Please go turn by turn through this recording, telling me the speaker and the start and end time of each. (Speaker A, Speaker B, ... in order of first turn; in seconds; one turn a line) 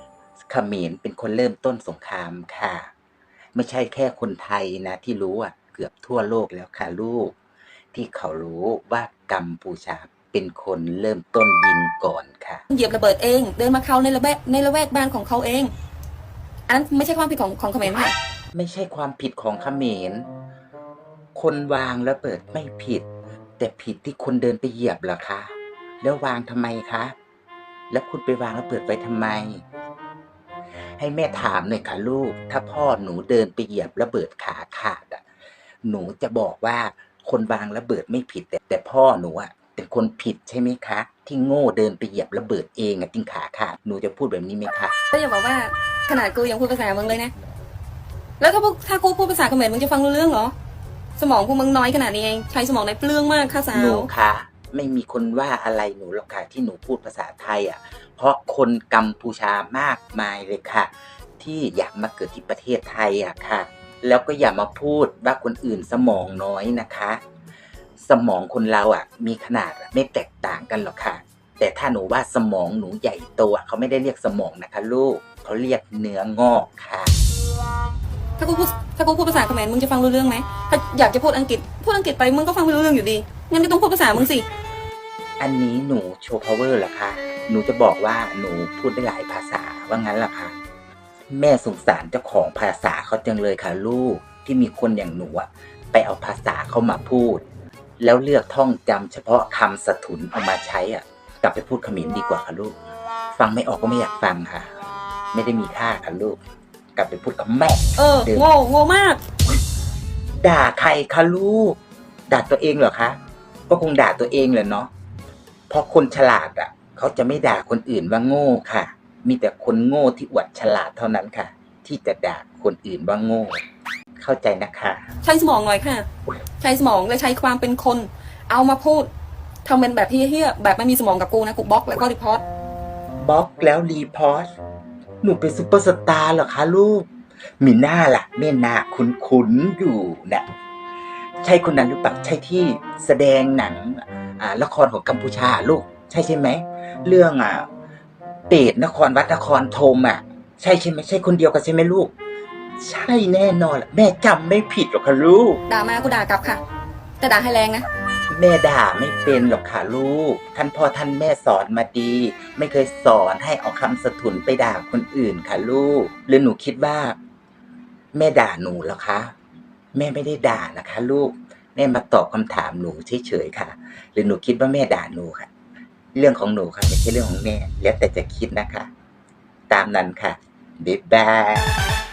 Speaker A: 0.4-2.9
Speaker A: 3.5-7.3
Speaker A: 7.9-12.6
Speaker B: 12.7-15.7
Speaker B: 16.7-18.1
Speaker A: 17.9-20.3
Speaker A: 21.4-23.1
Speaker A: 23.6-27.1
Speaker A: 27.9-29.6
Speaker A: 31.0-35.2
Speaker A: 35.8-44.9
Speaker B: 45.1-47.3
Speaker B: 48.4-50.5
Speaker B: 51.2-54.1
Speaker A: 53.7-67.2
Speaker A: 68.0-77.2
Speaker B: 78.4-84.5
Speaker A: 85.4-90.5
Speaker A: 91.3-97.4
Speaker A: 98.0-102.8
Speaker A: 103.3-104.7
Speaker A: 105.3-106.4
Speaker A: 107.0-108.5
Speaker B: 108.0-109.2
Speaker A: 110.4-111.8
Speaker A: 112.3-113.2
Speaker A: 113.7-114.9
Speaker A: 115.7-123.6
Speaker A: 124.2-125.0
Speaker B: 125.2-126.1
Speaker B: 126.6-129.1
Speaker B: 129.6-132.4
Speaker A: 133.2-134.5
Speaker A: 135.2-137.1
Speaker A: 137.6-140.4
Speaker A: 141.4-147.7
Speaker A: 148.5-152.1
Speaker A: 152.8-155.6
Speaker B: 155.7-156.6
Speaker B: 157.2-157.9
Speaker A: 158.3-167.2
Speaker A: 168.1-169.3
Speaker A: 169.9-175.5
Speaker A: 176.1-178.9
Speaker A: 179.7-181.7